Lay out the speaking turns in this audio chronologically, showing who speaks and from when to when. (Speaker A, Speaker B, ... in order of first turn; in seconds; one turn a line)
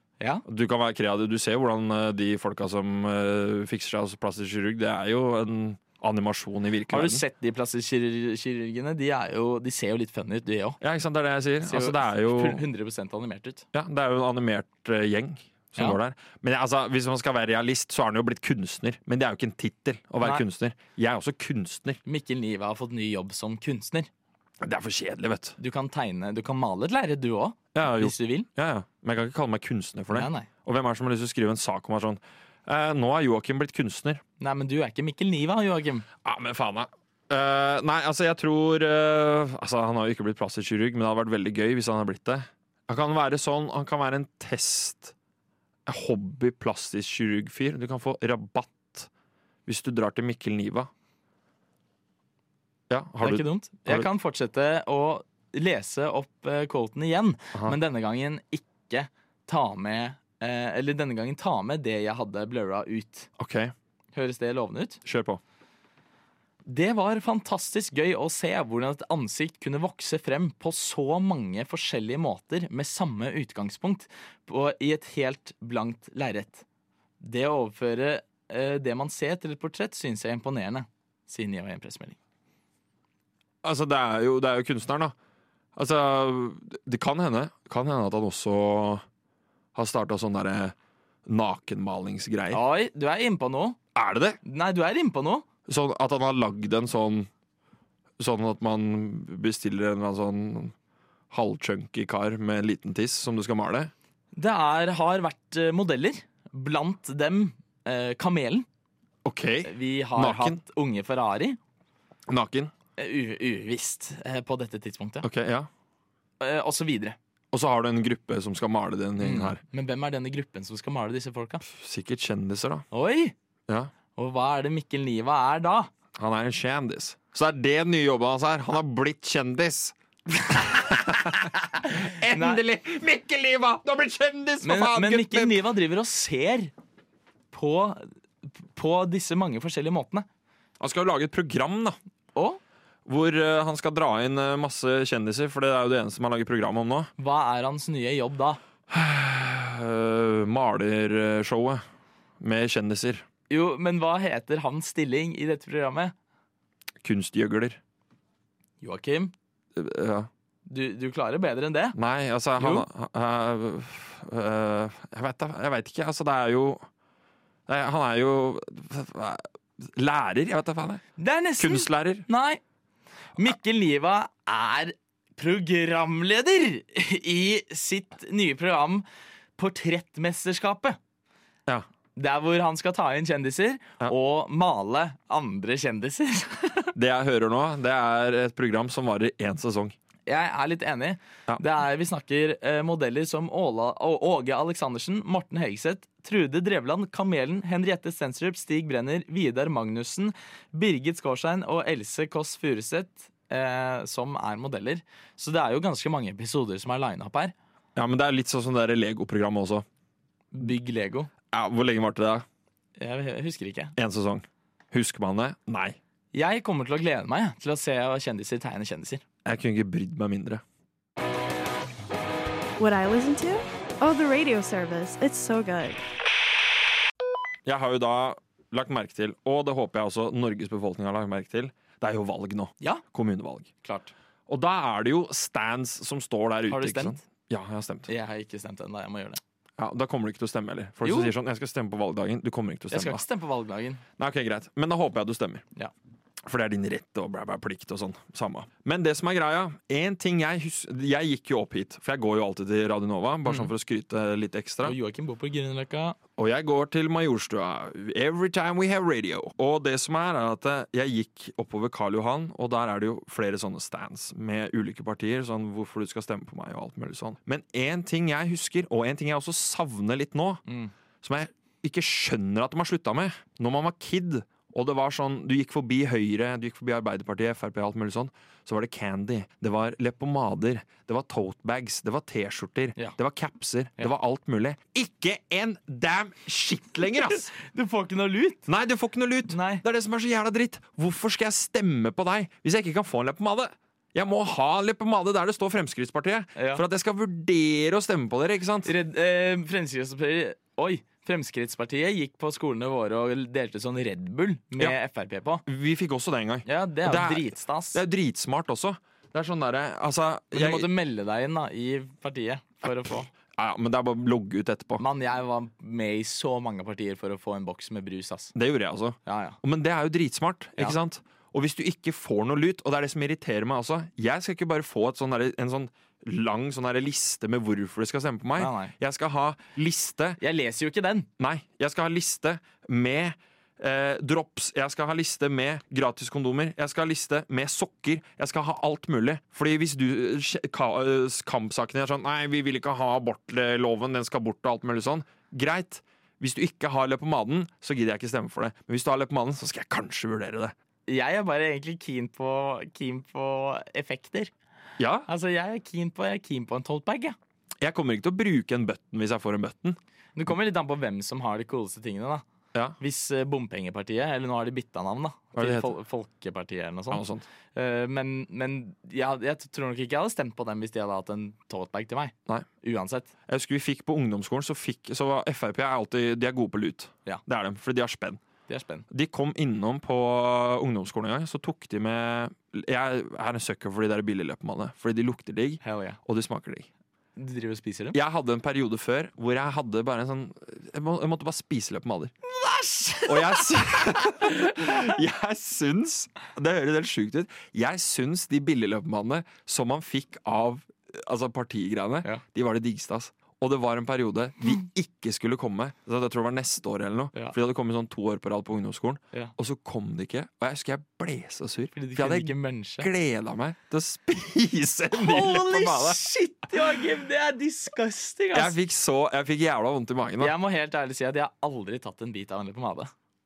Speaker A: 0.5-7.2
Speaker B: 6.9-10.8
Speaker A: 10.8-12.6
Speaker B: 11.6-13.7
Speaker A: 13.7-22.0
Speaker B: 22.1-24.1
Speaker A: 24.6-25.6
Speaker B: 25.6-28.5
Speaker A: 27.8-34.2
Speaker B: 30.1-30.5
Speaker B: 34.4-36.1
Speaker A: 36.2-45.1
Speaker A: 45.9-49.1
Speaker A: 49.7-50.9
Speaker A: 52.9-54.1
Speaker B: 53.2-63.3
Speaker A: 63.4-63.7
Speaker B: 64.1-65.0
Speaker A: 65.0-65.4
Speaker B: 66.7-76.6
Speaker B: 77.2-82.2
Speaker A: 83.6-85.2
Speaker A: 85.8-89.0
Speaker A: 89.8-90.7
Speaker A: 91.3-92.6
Speaker B: 92.5-93.8
Speaker A: 94.0-94.4
Speaker B: 94.4-95.5
Speaker A: 95.7-97.3
Speaker A: 98.2-100.7
Speaker A: 101.3-103.9
Speaker B: 104.3-108.7
Speaker A: 109.2-110.6
Speaker B: 109.7-111.6
Speaker A: 112.3-112.7
Speaker B: 113.0-115.3
Speaker A: 115.2-115.7
Speaker B: 116.4-117.2
Speaker A: 117.5-119.6
Speaker B: 119.2-121.7
Speaker A: 121.7-122.8
Speaker B: 122.9-123.3
Speaker B: 124.2-125.9
Speaker A: 126.2-135.6
Speaker B: 131.8-132.6
Speaker B: 134.6-136.7
Speaker B: 137.5-140.3
Speaker A: 140.8-142.0
Speaker B: 142.3-142.6
Speaker A: 143.1-147.1
Speaker B: 147.2-148.6
Speaker A: 148.9-151.8
Speaker A: 152.4-153.2
Speaker B: 153.5-156.1
Speaker A: 157.0-157.8
Speaker B: 158.8-159.3
Speaker A: 159.8-160.3
Speaker B: 160.7-162.0
Speaker A: 161.9-166.9
Speaker B: 162.6-162.9
Speaker A: 167.7-171.0
Speaker B: 171.2-172.6
Speaker A: 171.6-172.3
Speaker B: 173.4-179.1
Speaker B: 179.6-181.0
Speaker B: 182.2-186.9
Speaker A: 186.9-189.9
Speaker B: 190.3-207.5
Speaker A: 208.0-209.8
Speaker B: 210.5-211.3
Speaker A: 211.5-212.4
Speaker B: 213.0-213.9
Speaker A: 214.0-216.0
Speaker B: 216.3-219.2
Speaker A: 219.4-220.6
Speaker C: 222.8-226.0
Speaker A: 227.7-233.7
Speaker B: 233.8-234.1
Speaker A: 234.5-238.1
Speaker B: 236.7-237.2
Speaker B: 238.1-239.4
Speaker A: 239.8-243.2
Speaker B: 241.0-241.3
Speaker B: 242.9-244.0
Speaker A: 244.2-245.6
Speaker A: 246.5-255.0
Speaker B: 254.8-256.2
Speaker A: 256.4-270.6
Speaker B: 270.7-270.9
Speaker A: 271.2-287.5
Speaker B: 287.5-288.7
Speaker A: 288.7-298.9
Speaker B: 289.5-289.8
Speaker B: 296.6-296.8
Speaker B: 298.9-305.6
Speaker A: 305.7-310.9
Speaker B: 306.7-308.0
Speaker B: 310.5-313.3
Speaker A: 313.5-315.0
Speaker B: 315.0-318.5
Speaker A: 318.5-330.4
Speaker B: 319.3-319.6
Speaker B: 328.6-328.9
Speaker B: 330.4-331.3
Speaker A: 331.4-350.7
Speaker B: 351.1-354.5
Speaker A: 355.0-355.3
Speaker B: 355.3-357.4
Speaker A: 357.8-360.0
Speaker B: 360.4-362.4
Speaker B: 363.0-373.3
Speaker A: 365.6-365.9
Speaker A: 367.1-367.5
Speaker A: 373.5-378.4
Speaker B: 378.7-379.1
Speaker A: 379.1-386.9
Speaker B: 385.8-386.2
Speaker B: 387.4-388.2
Speaker A: 388.1-392.3
Speaker B: 392.5-395.1
Speaker A: 393.3-416.2
Speaker B: 411.9-413.1
Speaker B: 415.1-418.8
Speaker A: 418.5-420.6
Speaker B: 420.4-423.1